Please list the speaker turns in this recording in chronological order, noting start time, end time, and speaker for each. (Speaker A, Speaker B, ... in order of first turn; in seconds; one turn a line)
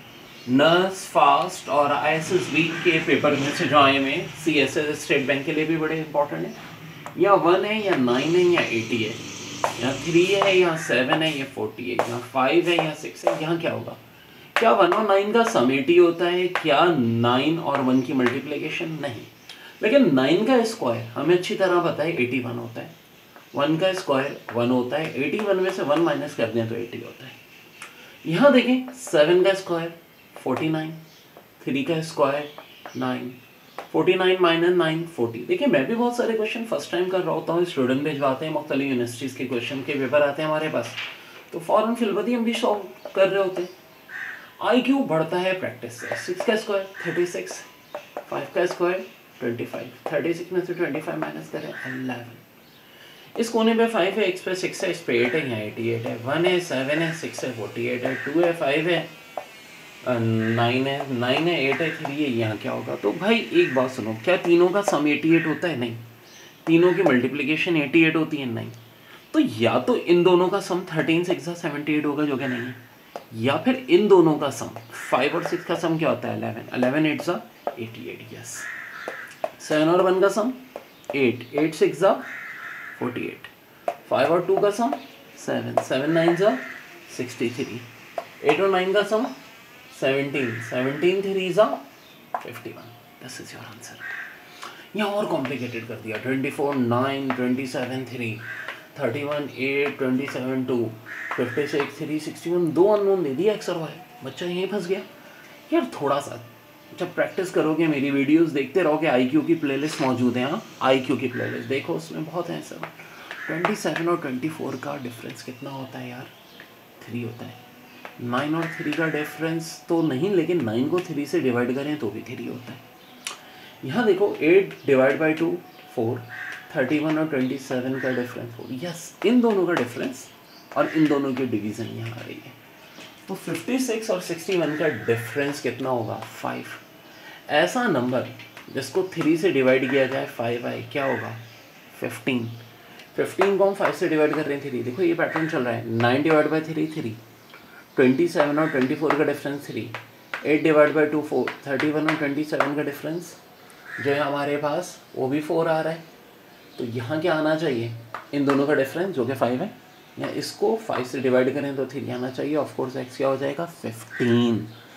Speaker A: 0.5-6.6
Speaker A: 7.2-9.2
Speaker A: 9.8-14.0
Speaker A: 14.6-22.9
Speaker A: 23.5-27.4
Speaker A: 28.2-31.0
Speaker A: 31.6-33.4
Speaker A: 33.9-43.7
Speaker A: 44.6-47.7
Speaker A: 48.3-52.4
Speaker A: 53.4-59.1
Speaker A: 60.0-66.0
Speaker A: 66.7-68.8
Speaker A: 69.3-72.8
Speaker A: 73.3-78.7
Speaker A: 79.6-80.6
Speaker A: 81.1-82.3
Speaker A: 83.0-83.5
Speaker A: 84.0-87.9
Speaker A: 88.4-89.3
Speaker A: 89.9-91.8
Speaker A: 92.4-94.1
Speaker A: 94.9-105.1
Speaker A: 105.7-116.3
Speaker A: 117.0-117.6
Speaker A: 118.2-122.8
Speaker A: 123.8-132.6
Speaker A: 133.3-136.8
Speaker A: 137.5-142.6
Speaker A: 143.1-147.2
Speaker A: 147.9-153.4
Speaker A: 154.0-156.1
Speaker A: 156.8-164.7